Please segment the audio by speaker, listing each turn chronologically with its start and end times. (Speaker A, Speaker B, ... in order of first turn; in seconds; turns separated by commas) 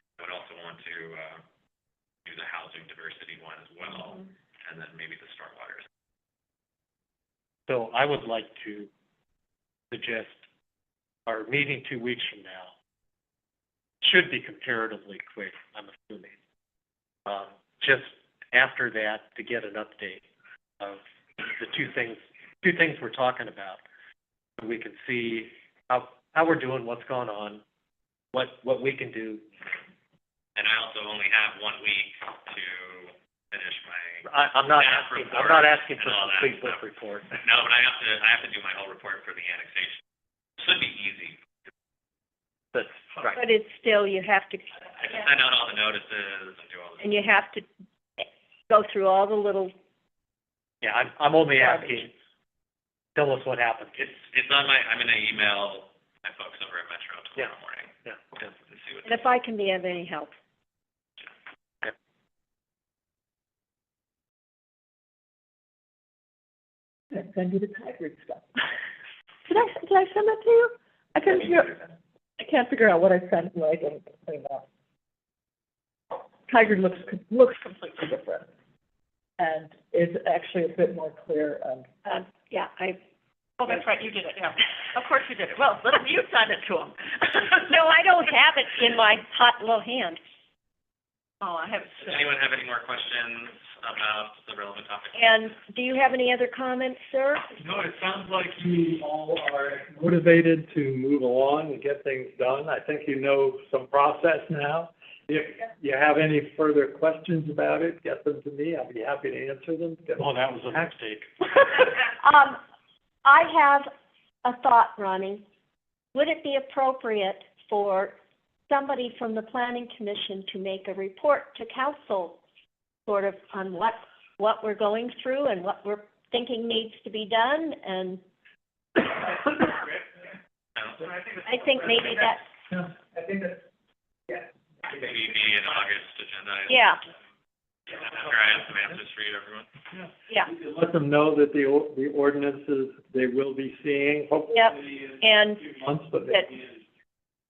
Speaker A: 0.2-1.4, Speaker A: 2.2-5.8, Speaker B: 7.7-8.9, Speaker B: 9.9-10.4, Speaker B: 11.3-12.7, Speaker B: 14.0-16.3, Speaker B: 17.3-20.2, Speaker B: 20.8-23.8, Speaker B: 24.6-27.6, Speaker B: 28.3-29.4, Speaker A: 30.6-36.8, Speaker B: 34.2-37.3, Speaker A: 37.4-40.0, Speaker A: 40.6-41.4, Speaker B: 42.7-43.4, Speaker C: 43.4-44.6, Speaker A: 45.0-47.3, Speaker C: 47.0-47.6, Speaker C: 48.2-49.7, Speaker B: 50.8-52.1, Speaker C: 51.5-52.0, Speaker B: 53.2-54.1, Speaker A: 54.0-59.2, Speaker C: 59.0-60.3, Speaker D: 67.1-68.7, Speaker D: 69.5-74.6, Speaker D: 76.5-78.5, Speaker D: 79.4-81.9, Speaker C: 82.0-83.0, Speaker E: 83.6-87.7, Speaker C: 87.7-90.2, Speaker E: 91.4-92.2, Speaker A: 91.9-95.2, Speaker C: 95.1-97.5, Speaker F: 97.6-110.3, Speaker B: 110.2-111.7, Speaker C: 112.2-112.6, Speaker C: 113.2-113.9, Speaker C: 114.4-115.4, Speaker C: 116.1-118.1, Speaker C: 118.7-122.4, Speaker C: 123.1-128.2, Speaker A: 130.8-131.0, Speaker C: 131.4-132.4, Speaker F: 132.7-133.6, Speaker A: 134.8-136.9, Speaker C: 136.7-137.0, Speaker A: 137.9-139.7, Speaker F: 139.9-144.7, Speaker C: 144.5-145.6, Speaker F: 145.7-146.5